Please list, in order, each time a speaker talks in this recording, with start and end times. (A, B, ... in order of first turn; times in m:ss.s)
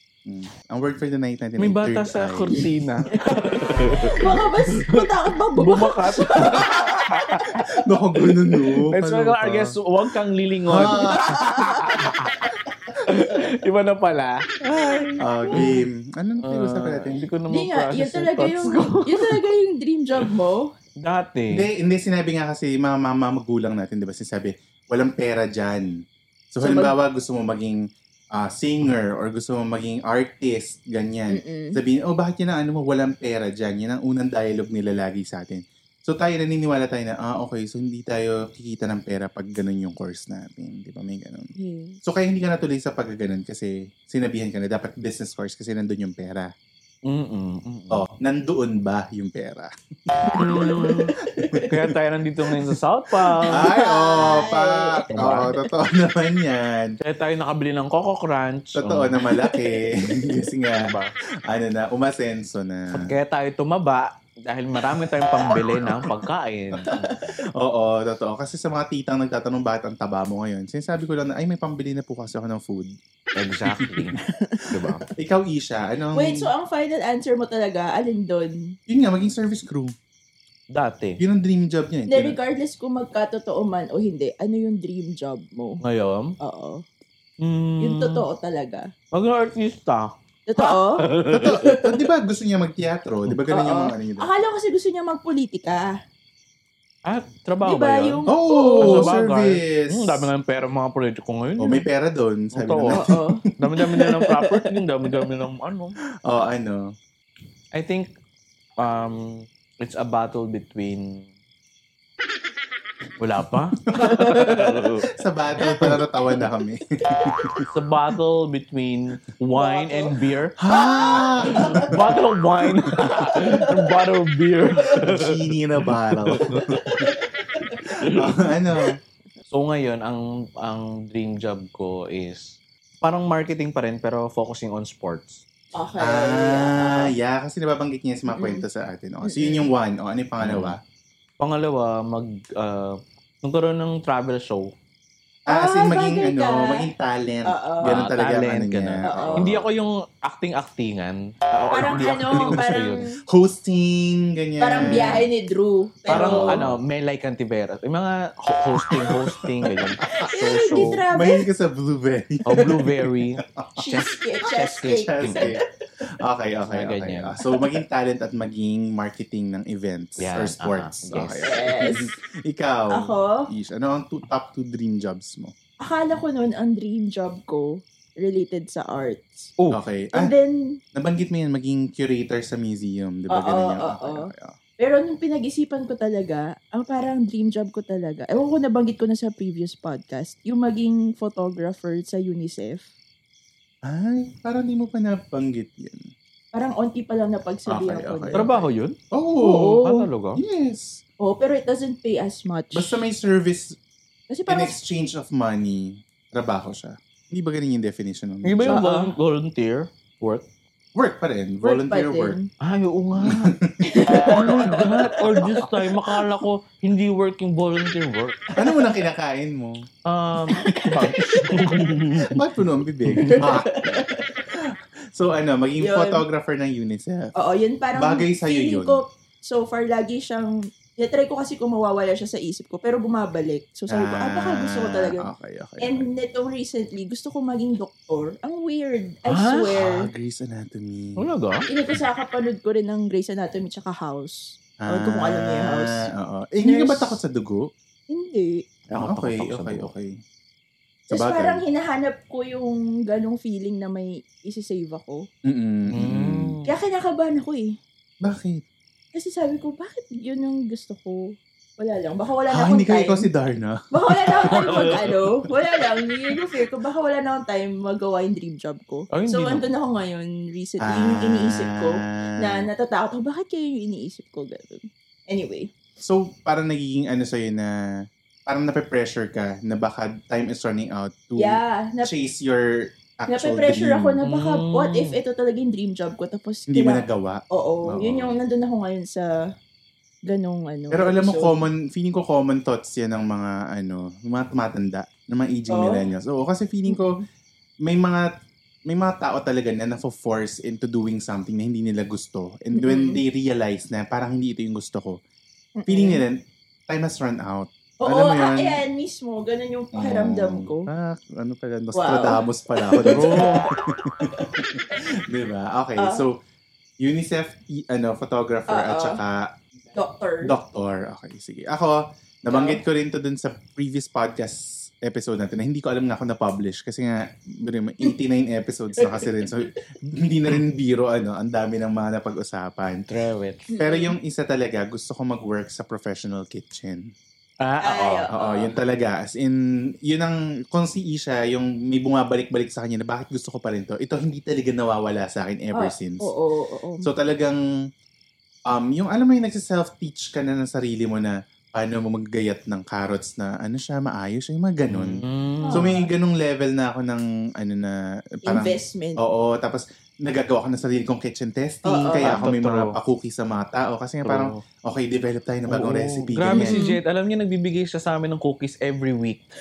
0:00.2-0:02.6 A
0:01.6-0:15.7 B
0:03.4-0:03.9 A
0:03.9-0:07.3 C
0:07.7-0:09.8 A
0:10.7-0:11.5 A
0:10.8-0:11.8 C
0:14.8-0:15.8 C
0:15.2-0:17.2 A
0:16.4-0:19.5 B
0:17.5-0:20.7 C
0:21.0-0:21.7 B
0:21.5-0:41.5 A
0:26.6-0:26.9 C
0:31.3-0:31.8 C
0:41.6-0:42.0 C
0:42.0-0:46.5 A
0:47.0-0:48.0 B
0:47.9-0:49.7 A
0:50.3-0:51.1 B
0:51.4-0:51.7 C
0:51.7-0:53.7 B
0:53.4-0:55.0 C
0:53.5-0:57.0 A
0:55.1-0:55.5 B
0:57.0-0:59.2 B
0:58.8-1:00.9 A
1:00.8-1:01.1 B
1:01.4-1:03.1 A
1:02.9-1:07.1 B
1:06.8-1:12.9 A
1:13.4-1:15.0 B
1:13.7-1:14.1 A
1:14.8-1:16.5 A
1:16.1-1:18.7 C
1:18.9-1:19.9 A
1:20.7-1:21.2 B
1:21.2-1:22.4 A
1:22.1-1:25.8 C
1:25.8-1:26.3 B
1:26.4-1:26.8 C
1:27.4-1:28.2 B
1:27.8-1:28.9 C
1:29.1-1:31.7 B
1:30.5-1:31.0 C
1:31.3-1:34.3 A
1:33.5-1:36.0 C
1:37.0-1:38.2 B
1:37.6-1:39.2 C
1:38.3-1:40.3 A
1:38.8-1:41.9 B
1:41.6-1:43.3 A
1:42.5-1:43.1 B
1:42.9-1:45.3 C
1:43.6-1:46.0 B
1:46.2-1:46.9 A
1:47.7-1:48.1 B
1:48.8-1:51.3 B
1:53.2-1:55.1 B
1:53.9-1:54.4 A
1:53.9-1:54.5 C
1:55.1-1:57.7 A
1:57.7-2:00.6 B
1:59.5-2:00.1 C
2:00.6-2:02.2 A
2:00.7-2:01.9 C
2:01.4-2:06.8 B
2:03.3-2:03.7 C
2:04.9-2:07.0 A
2:07.0-2:07.8 C
2:07.9-2:08.2 B
2:08.1-2:09.0 A
2:09.5-2:15.4 B
2:15.7-2:17.1 C
2:16.0-2:20.8 A
2:18.3-2:18.6 C
2:19.2-2:19.7 C
2:20.4-2:20.8 B
2:21.4-2:24.7 B
2:25.5-2:29.6 A
2:25.5-2:26.9 C
2:27.5-2:27.9 C
2:27.8-2:33.0 B
2:29.0-2:29.6 C
2:31.7-2:33.2 C
2:32.3-2:35.2 A
2:34.6-2:36.6 C
2:34.8-2:35.2 B
2:36.1-2:36.8 A
2:36.1-2:41.0 B
2:38.9-2:39.7 A
2:40.0-2:41.4 C
2:40.2-2:43.7 A
2:42.5-2:45.5 B
2:43.8-2:45.6 C
2:44.9-2:45.6 A
2:46.2-2:55.5 A
2:46.7-2:47.4 B
2:50.2-2:51.9 B
2:51.4-2:52.1 C
2:52.9-2:53.5 C
2:55.8-2:59.5 C
2:59.7-3:00.3 A
3:00.1-3:00.8 C
3:00.9-3:04.6 A
3:03.3-3:04.3 C
3:04.8-3:12.9 C
3:13.8-3:16.1 A
3:16.5-3:18.6 C
3:17.7-3:19.8 A
3:18.3-3:19.0 B
3:19.4-3:20.0 C
3:19.8-3:20.4 B
3:20.3-3:21.0 A
3:21.2-3:23.0 C
3:22.7-3:23.8 A
3:24.3-3:24.8 C
3:24.5-3:28.8 A
3:28.4-3:30.4 B
3:28.7-3:29.1 C
3:30.9-3:32.4 A
3:31.6-3:32.5 C
3:32.6-3:33.6 B
3:33.2-3:35.7 A
3:33.8-3:35.6 C
3:34.1-3:38.4 B
3:38.6-3:39.9 A
3:40.0-3:42.4 B
3:40.5-3:41.7 C
3:42.2-3:43.9 A
3:43.0-3:43.4 B
3:43.2-3:44.4 C
3:44.5-3:47.3 A
3:45.8-3:46.2 C
3:47.4-3:55.2 C
3:47.9-3:49.0 A
3:53.9-3:56.1 A
3:55.8-4:00.1 C
3:59.3-3:59.7 B
3:59.7-4:01.2 A
4:01.2-4:01.6 B
4:01.7-4:06.1 C
4:04.8-4:07.7 A
4:06.6-4:07.2 C
4:08.1-4:08.6 C
4:08.9-4:09.9 B
4:08.9-4:10.1 A
4:11.1-4:15.3 C
4:11.1-4:11.6 A
4:15.4-4:16.5 A
4:15.9-4:16.7 B
4:16.6-4:17.8 C
4:18.2-4:18.6 A
4:19.1-4:23.3 C
4:22.5-4:25.2 A
4:23.9-4:35.7 C
4:29.1-4:29.6 B
4:30.8-4:32.6 A
4:36.0-4:37.7 A
4:38.4-4:44.2 A
4:41.4-4:42.1 C
4:43.3-4:49.3 C
4:44.2-4:45.2 B
4:46.7-4:48.4 A
4:50.2-4:51.6 C
4:50.9-4:57.2 A
4:55.7-4:56.0 C
4:56.9-4:57.2 C
4:57.8-4:58.3 A
4:58.9-5:05.2 A
5:02.7-5:03.2 C
5:05.8-5:06.2 C
5:05.9-5:08.8 A
5:08.0-5:10.9 C
5:10.0-5:16.4 A
5:11.9-5:13.5 C
5:13.1-5:13.7 B
5:16.0-5:16.2 C
5:17.0-5:19.5 A
5:18.7-5:19.2 C
5:19.9-5:20.5 C
5:20.4-5:33.0 A
5:22.5-5:22.8 C
5:29.0-5:29.4 C
5:33.1-5:33.7 B
5:33.7-5:34.1 C
5:33.7-5:37.1 A
5:37.6-5:38.3 B
5:37.8-5:38.7 C
5:38.3-5:46.3 A
5:45.7-5:47.1 C
5:47.0-5:47.6 A
5:48.7-6:06.8 A
5:54.9-5:55.9 B
5:55.6-5:56.0 C
5:58.4-5:59.2 C
6:01.8-6:02.3 C
6:02.2-6:02.9 B
6:04.2-6:04.6 B
6:05.7-6:09.4 B
6:06.5-6:07.0 C